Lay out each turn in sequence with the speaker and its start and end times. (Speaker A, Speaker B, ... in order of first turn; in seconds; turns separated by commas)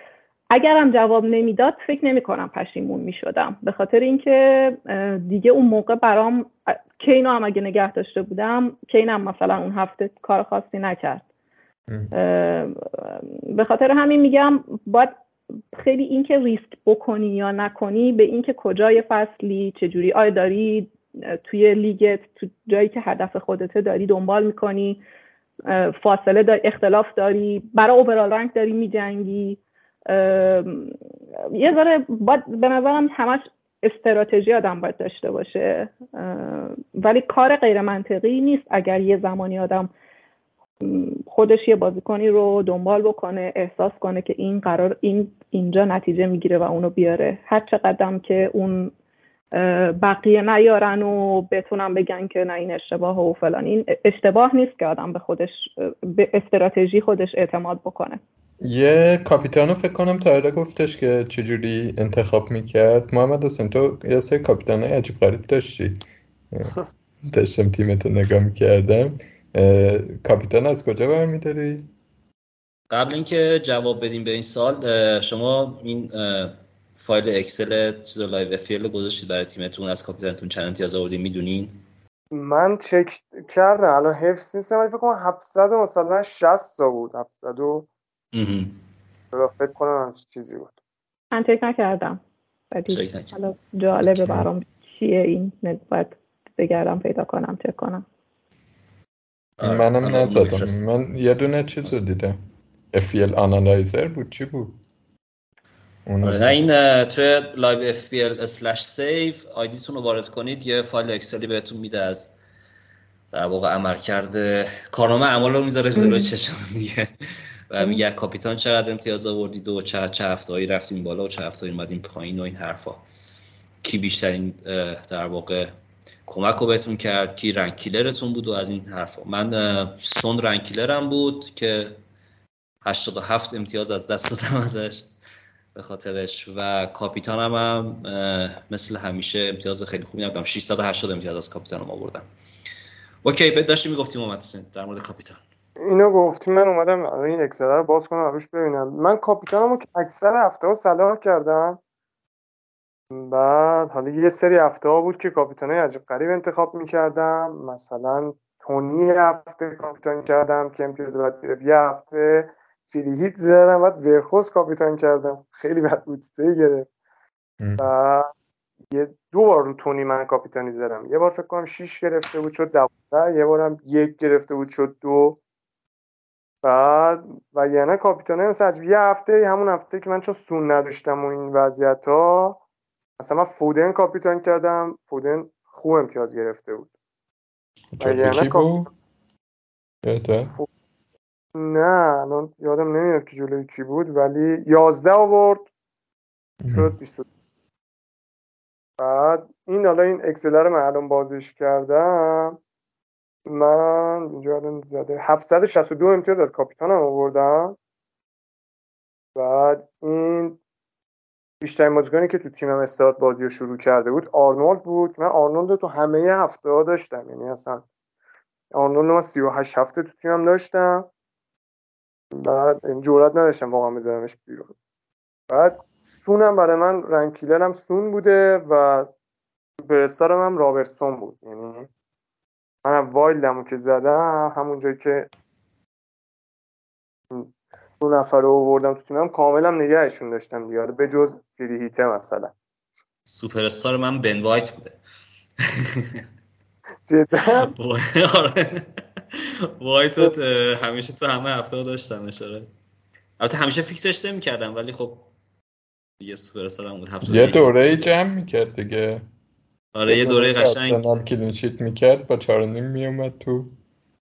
Speaker A: 0.5-11.2, Speaker A: 12.1-15.1, Speaker A: 15.7-25.0, Speaker A: 25.7-30.9, Speaker A: 31.5-39.9, Speaker A: 40.8-48.9, Speaker A: 49.5-58.2, Speaker B: 58.6-66.7, Speaker B: 67.3-71.9, Speaker C: 72.9-81.8, Speaker D: 82.3-87.9, Speaker C: 88.3-88.8, Speaker D: 89.3-90.8, Speaker A: 91.3-92.2, Speaker A: 92.7-98.0, Speaker C: 92.9-93.3, Speaker B: 94.2-94.5, Speaker C: 99.6-100.8, Speaker B: 99.6-102.4, Speaker B: 102.9-104.8, Speaker B: 106.0-106.6, Speaker C: 106.2-112.4, Speaker C: 113.3-117.1, Speaker A: 116.0-116.3, Speaker C: 117.7-123.0, Speaker C: 123.8-125.7, Speaker C: 126.3-132.0, Speaker C: 132.8-135.1, Speaker C: 135.7-142.3, Speaker C: 143.2-145.4, Speaker D: 145.8-151.8, Speaker D: 153.1-166.9, Speaker B: 167.6-167.9, Speaker D: 167.8-168.3, Speaker D: 168.9-175.4, Speaker D: 176.6-182.6, Speaker D: 183.2-186.9, Speaker B: 187.9-188.9, Speaker D: 188.0-188.7, Speaker B: 190.1-190.6, Speaker D: 191.6-195.7, Speaker B: 196.6-196.9, Speaker D: 196.7-197.3, Speaker D: 199.0-202.6, Speaker D: 203.5-207.8, Speaker D: 209.4-210.6, Speaker D: 211.6-217.8, Speaker D: 218.7-221.1, Speaker D: 222.4-224.7, Speaker D: 225.5-229.1, Speaker D: 229.8-231.9, Speaker D: 232.8-235.3, Speaker D: 237.3-242.5, Speaker C: 243.3-245.0, Speaker C: 245.7-246.2, Speaker D: 247.1-247.7, Speaker C: 247.6-252.7, Speaker C: 253.4-255.3, Speaker C: 256.2-258.1, Speaker B: 257.2-259.2, Speaker C: 259.9-261.0, Speaker B: 260.1-263.8